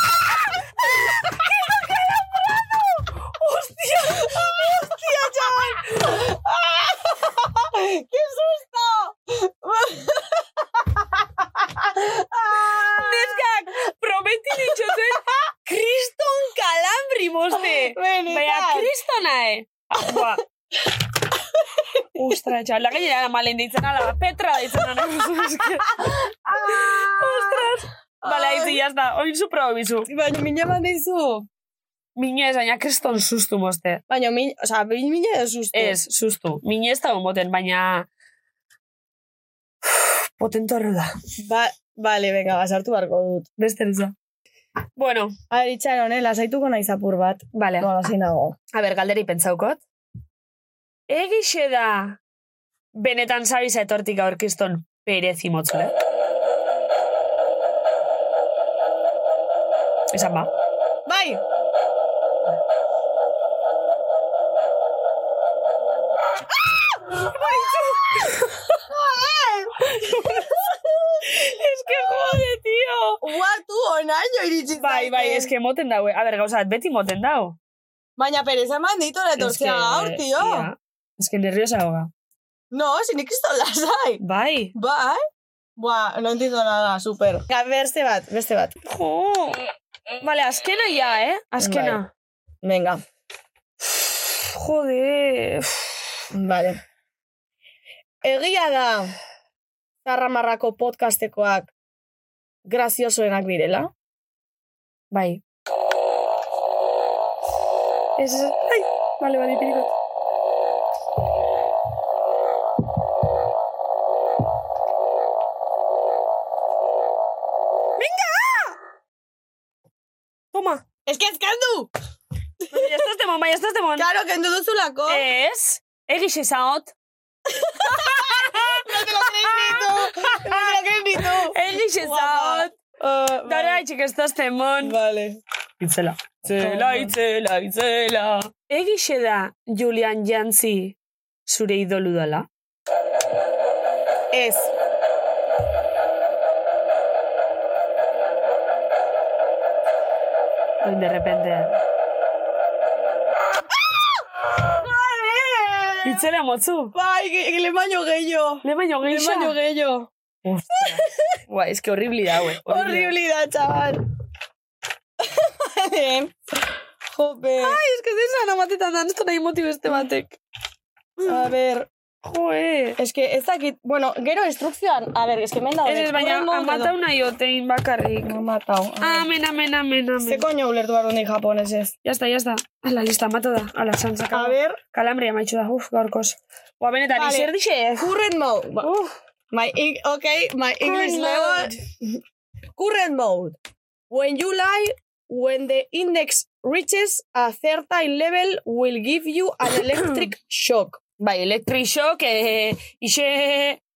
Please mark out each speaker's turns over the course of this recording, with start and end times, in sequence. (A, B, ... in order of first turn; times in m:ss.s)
0:01.3-0:02.4 A
0:03.2-0:05.9 A
0:04.1-0:13.4 B
0:12.9-0:20.4 A
0:14.6-0:15.4 B
0:17.5-0:18.9 B
0:21.6-0:22.4 B
0:22.1-0:30.1 A
0:25.9-0:27.7 B
0:28.2-0:28.8 B
0:30.1-0:31.5 B
0:32.2-0:34.0 A
0:34.1-0:36.0 B
0:35.7-0:38.1 A
0:39.8-0:41.1 A
0:41.4-0:43.5 B
0:43.6-0:44.1 A
0:45.0-0:45.3 A
0:45.5-0:48.6 B
0:47.5-0:47.9 A
0:48.7-0:49.8 A
0:51.1-0:52.2 A
0:52.9-0:55.9 A
1:00.1-1:00.5 A
1:01.0-1:01.4 B
1:06.5-1:12.4 B
1:07.7-1:08.3 A
1:09.9-1:10.4 A
1:11.2-1:13.2 A
1:13.2-1:15.5 B
1:14.8-1:17.6 A
1:18.2-1:20.7 B
1:19.4-1:22.1 A
1:22.7-1:24.2 B
1:24.2-1:24.7 A
1:24.7-1:25.2 B
1:25.8-1:28.8 B
1:28.9-1:29.6 A
1:30.2-1:32.1 A
1:31.6-1:32.0 B
1:32.6-1:33.0 B
1:33.8-1:36.0 A
1:36.3-1:36.8 B
1:38.2-1:39.1 B
1:40.0-1:41.7 B
1:42.6-1:43.9 B
1:45.1-1:45.4 A
1:48.2-1:49.9 A
1:58.0-1:58.8 A
2:00.5-2:00.8 A
2:01.0-2:01.9 B
2:02.6-2:03.1 B
2:02.7-2:04.1 A
2:04.0-2:05.3 B
2:05.1-2:06.9 A
2:07.5-2:13.8 B
2:07.9-2:10.8 A
2:11.5-2:12.8 A
2:13.4-2:15.0 A
2:14.8-2:15.4 B
2:15.8-2:22.5 A
2:16.4-2:17.1 B
2:24.3-2:24.7 B
2:30.8-2:31.8 A
2:34.7-2:36.2 B
2:36.0-2:36.9 A
2:36.9-2:40.1 B
2:38.6-2:39.6 A
2:40.4-2:43.1 A
2:40.8-2:41.3 B
2:42.6-2:44.0 B
2:45.2-2:46.4 B
2:47.1-2:47.8 B
2:47.6-2:50.4 A
2:51.2-2:51.9 B
2:52.2-2:53.0 A
2:53.0-2:56.9 B
2:55.9-2:58.3 A
2:58.2-2:59.3 B
2:59.0-3:00.4 A
3:00.2-3:01.9 B
3:02.0-3:08.1 A
3:04.3-3:04.8 B
3:07.1-3:08.9 B
3:08.8-3:09.1 A
3:09.5-3:12.2 B
3:10.8-3:11.8 A
3:12.7-3:13.6 B
3:14.1-3:21.0 B
3:21.2-3:23.8 A